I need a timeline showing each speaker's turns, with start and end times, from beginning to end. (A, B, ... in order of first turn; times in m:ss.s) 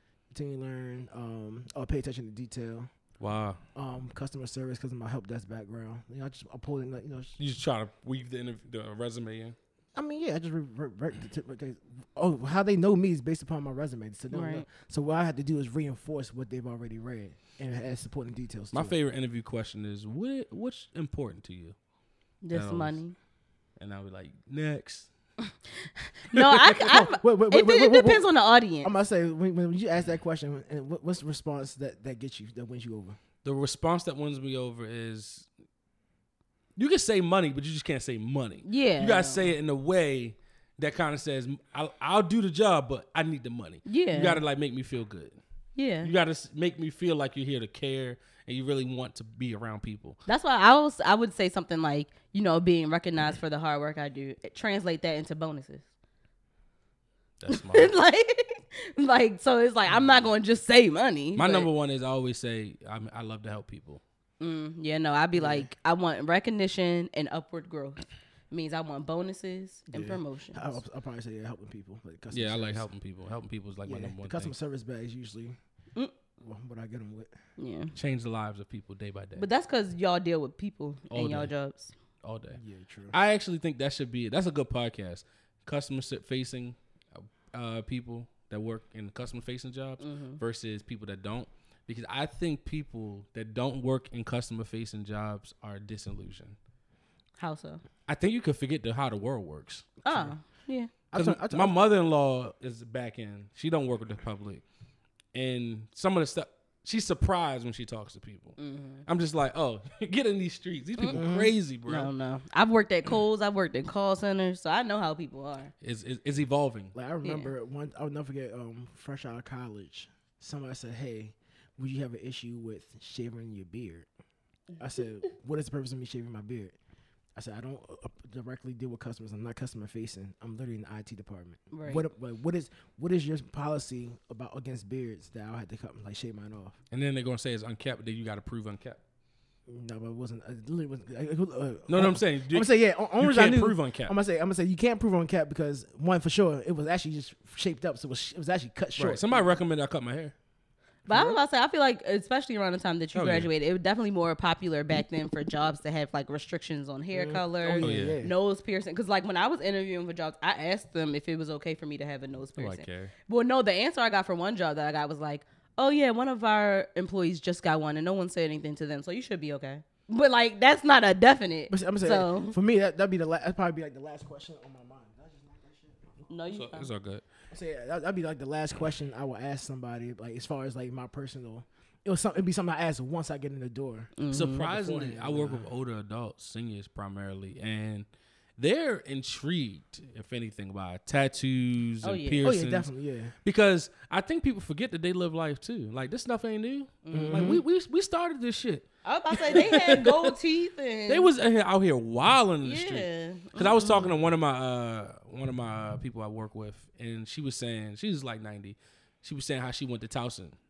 0:00.3-0:02.9 A
0:03.2-0:03.6 B
0:03.8-0:07.4 A
0:07.4-0:09.6 B
0:10.0-0:19.0 A
0:14.3-0:14.6 C
0:18.7-0:21.8 B
0:22.4-0:23.2 C
0:22.5-0:23.0 B
0:23.8-0:25.1 B
0:25.8-0:28.9 C
0:26.3-0:26.7 B
0:26.7-0:28.2 A
0:28.8-0:33.2 A
0:33.4-0:35.5 B
0:36.8-0:45.4 B
0:38.6-0:39.5 C
0:43.9-0:44.4 C
0:45.8-0:46.1 C
0:46.0-0:50.2 B
0:50.3-0:55.8 C
0:57.4-0:57.9 B
0:57.5-1:01.7 C
1:01.4-1:04.0 B
1:04.4-1:10.8 C
1:05.4-1:05.7 A
1:09.9-1:12.9 A
1:12.3-1:14.5 B
1:13.9-1:15.6 A
1:16.4-1:17.3 A
1:17.6-1:17.9 C
1:18.0-1:19.4 B
1:19.4-1:21.9 C
1:21.1-1:21.5 B
1:22.2-1:22.6 B
1:22.6-1:23.2 A
1:23.1-1:36.6 B
1:30.0-1:30.4 C
1:37.4-1:37.8 C
1:38.1-1:40.0 B
1:40.0-1:40.9 C
1:41.1-1:41.8 A
1:41.1-1:44.6 B
1:45.3-1:52.1 B
1:48.6-1:49.0 C
1:51.1-1:51.5 A
1:51.9-1:55.7 C
1:55.8-1:57.0 B
1:57.0-2:04.1 A
1:57.2-1:57.5 C
2:04.8-2:06.8 A
2:07.4-2:16.8 A
2:11.7-2:12.0 C
2:16.9-2:19.0 B
2:19.7-2:29.3 A
2:21.9-2:24.1 B
2:29.0-2:30.3 B
2:31.1-2:52.6 C
2:31.1-2:31.4 A
2:33.1-2:33.5 B
2:37.1-2:38.4 A
2:37.8-2:38.2 B
2:42.6-2:43.1 B
2:51.7-2:56.2 A
2:56.3-2:56.9 C
2:56.5-2:57.2 B
2:57.5-3:05.7 A
3:04.2-3:04.7 C
3:04.3-3:08.1 B
3:08.6-3:12.9 B
3:12.0-3:12.5 C
3:12.4-3:13.4 A
3:13.4-3:18.9 B
3:17.0-3:17.6 C
3:17.1-3:17.6 A
3:19.0-3:21.3 C
3:19.4-3:20.3 B
3:21.1-3:30.6 B
3:22.6-3:24.1 C